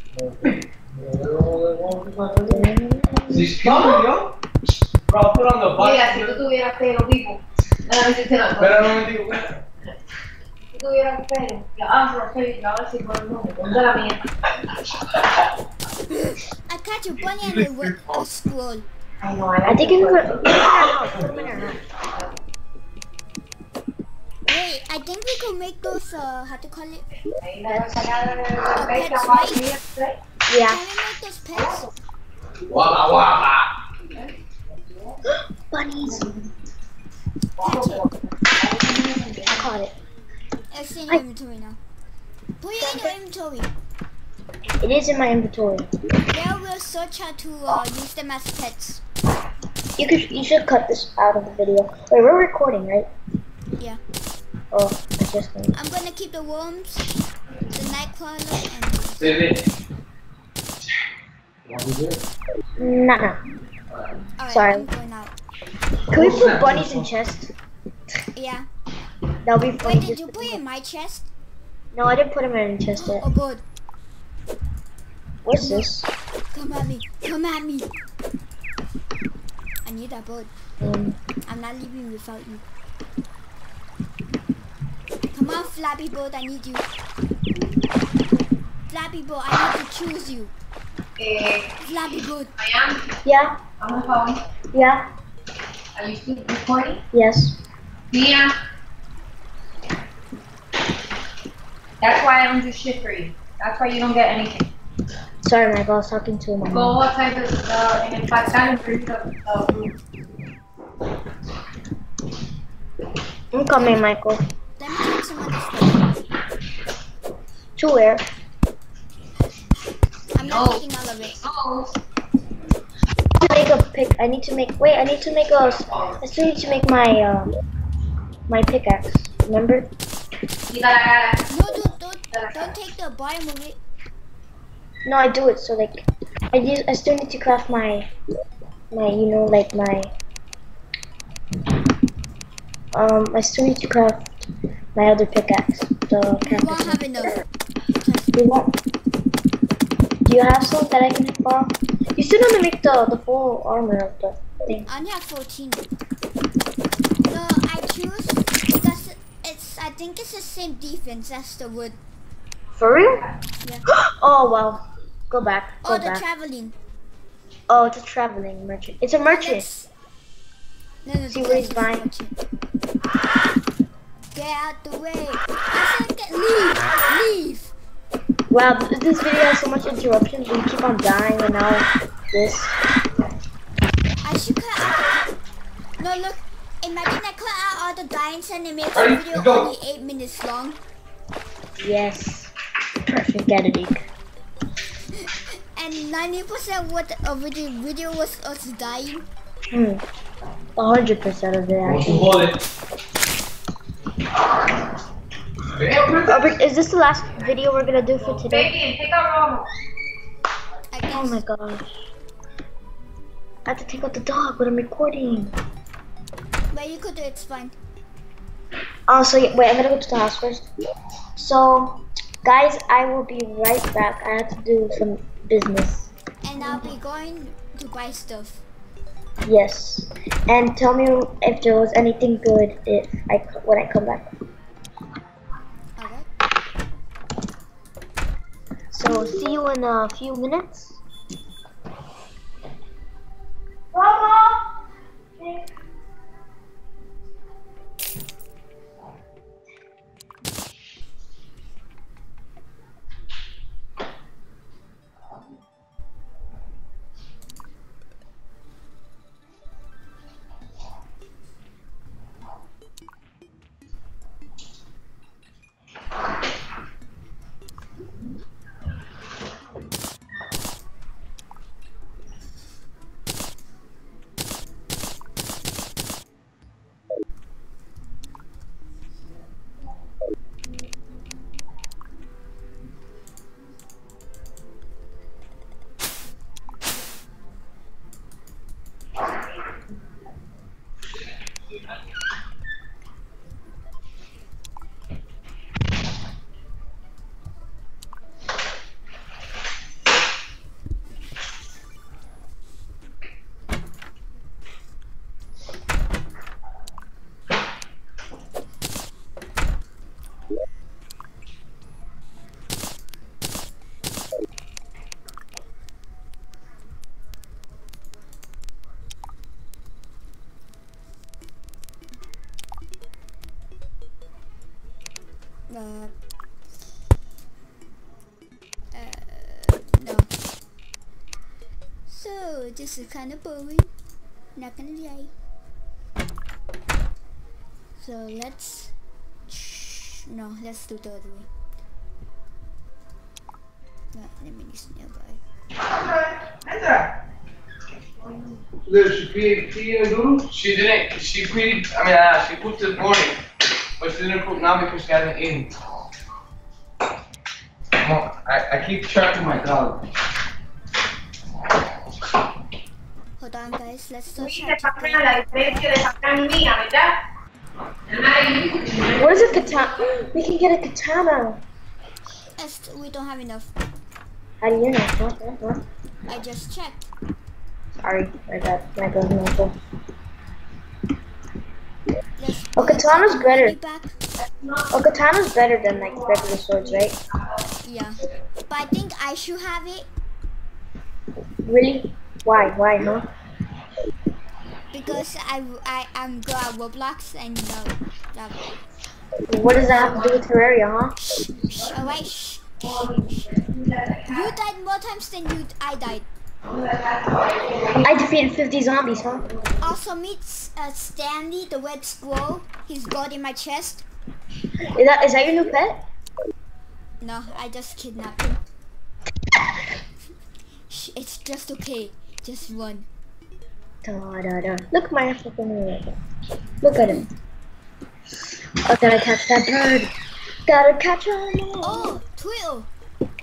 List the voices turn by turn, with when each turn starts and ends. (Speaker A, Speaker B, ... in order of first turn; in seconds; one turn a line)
Speaker A: 0.1-2.5
Speaker B: 2.5-3.9
Speaker A: 3.3-4.4
Speaker A: 5.1-6.4
Speaker C: 5.8-9.1
Speaker A: 8.6-9.6
Speaker C: 10.7-14.2
Speaker D: 16.1-18.9
Speaker A: 17.3-18.3
Speaker C: 19.2-21.3
Speaker B: 19.7-21.8
Speaker D: 24.5-27.1
Speaker C: 27.4-30.2
Speaker B: 27.7-28.4
Speaker D: 28.8-29.7
Speaker B: 30.5-30.8
Speaker D: 30.6-31.9
Speaker C: 31.6-31.8
Speaker A: 32.7-33.7
Speaker B: 35.3-36.3
Speaker C: 36.1-36.4
Speaker C: 37.6-39.7
Speaker D: 37.6-38.1
Speaker B: 39.5-39.9
Speaker D: 40.7-41.8
Speaker D: 42.6-43.7
Speaker B: 42.8-43.1
Speaker B: 44.8-45.9
Speaker D: 46.3-49.0
Speaker B: 50.0-53.1
Speaker B: 54.7-55.8
Speaker D: 55.8-57.1
Speaker D: 57.7-59.3
Speaker A: 59.2-59.7
Speaker A: 61.6-62.2
Speaker B: 62.8-63.4
Speaker A: 63.9-64.2
Speaker D: 64.4-65.3
Speaker B: 64.5-64.9
Speaker B: 66.1-67.5
Speaker A: 66.1-67.1
Speaker D: 68.3-68.7
Speaker B: 69.5-70.6
Speaker D: 69.8-71.3
Speaker B: 71.9-73.3
Speaker D: 73.0-73.6
Speaker B: 75.5-76.1
Speaker D: 75.6-75.9
Speaker D: 76.5-77.9
Speaker D: 79.8-80.5
Speaker B: 80.8-81.2
Speaker D: 81.5-82.6
Speaker D: 85.3-86.9
Speaker D: 88.9-90.5
Speaker C: 91.2-91.8
Speaker D: 91.8-92.5
Speaker C: 92.6-93.1
Speaker B: 93.2-93.6
Speaker C: 93.8-94.4
Speaker B: 94.7-95.1
Speaker C: 96.0-97.0
Speaker B: 97.1-97.6
Speaker C: 98.1-98.5
Speaker C: 102.0-104.7
Speaker B: 105.4-107.0
Speaker C: 106.7-109.9
Speaker B: 113.5-114.4
Speaker D: 114.8-116.2
Speaker B: 117.8-118.2
Speaker D: 120.3-121.4
Speaker C: 120.4-120.8
Speaker C: 121.4-121.9
Speaker B: 123.4-127.5
Speaker A: 125.6-126.2
Speaker B: 128.5-129.9
Speaker C: 130.7-131.5
Speaker D: 131.5-133.8
Speaker B: 135.1-138.1
Speaker B: 138.9-140.1
Speaker B: 142.9-147.0
Speaker D: 146.5-147.4
Speaker D: 148.0-148.4
Speaker B: 148.3-148.8
Speaker B: 150.3-154.9
Speaker D: 154.9-155.8
Speaker D: 157.3-162.0
Speaker B: 162.8-163.3
Speaker B: 163.9-166.2
Speaker D: 165.8-166.8
Speaker B: 167.7-169.7
Speaker D: 169.2-169.9
Speaker D: 171.1-172.3
Speaker B: 171.3-172.1
Speaker D: 174.3-177.7
Speaker B: 178.5-182.8
Speaker D: 184.2-185.3
Speaker D: 186.0-190.8
Speaker A: 188.9-189.7
Speaker B: 191.8-194.1
Speaker D: 195.1-199.2
Speaker B: 199.7-200.0
Speaker B: 200.8-202.5
Speaker A: 201.8-202.6
Speaker A: 205.7-206.5
Speaker B: 206.2-208.7
Speaker C: 208.2-209.7
Speaker D: 210.9-211.4
Speaker B: 211.1-212.0
Speaker B: 213.7-215.6
Speaker D: 216.7-217.8
Speaker B: 219.1-220.7
Speaker B: 221.4-226.1
Speaker D: 226.4-228.6
Speaker B: 229.4-234.3
Speaker D: 236.0-236.3
Speaker B: 238.9-241.0
Speaker B: 243.9-244.6
Speaker D: 325.7-326.1
Speaker D: 328.9-330.3
Speaker D: 332.1-333.9
Speaker D: 334.6-335.3
Speaker D: 338.0-338.9
Speaker D: 339.5-341.5
Speaker D: 344.1-345.4
Speaker A: 346.7-347.1
Speaker A: 348.9-353.4
Speaker A: 354.0-355.7
Speaker A: 357.9-360.1
Speaker D: 363.4-365.9
Speaker C: 364.4-367.2
Speaker C: 368.1-370.1
Speaker B: 369.1-371.6
Speaker D: 372.6-373.7
Speaker B: 374.6-375.8
Speaker D: 376.3-377.1
Speaker B: 378.0-379.8
Speaker D: 382.4-384.1
Speaker B: 382.8-383.8
Speaker B: 384.9-387.2
Speaker C: 386.1-387.1
Speaker D: 387.8-390.1
Speaker B: 391.6-393.3
Speaker D: 394.9-398.6
Speaker B: 399.5-401.1
Speaker C: 399.9-400.4
Speaker D: 401.2-402.8
Speaker C: 402.8-404.5
Speaker D: 404.3-406.3
Speaker C: 406.7-408.2
Speaker B: 408.0-409.5
Speaker D: 409.8-414.0
Speaker B: 414.9-416.0
Speaker D: 417.2-418.6
Speaker D: 420.9-423.1
Speaker B: 424.0-426.2
Speaker B: 426.8-427.2
Speaker B: 428.9-430.1
Speaker B: 430.7-432.2
Speaker D: 431.8-432.9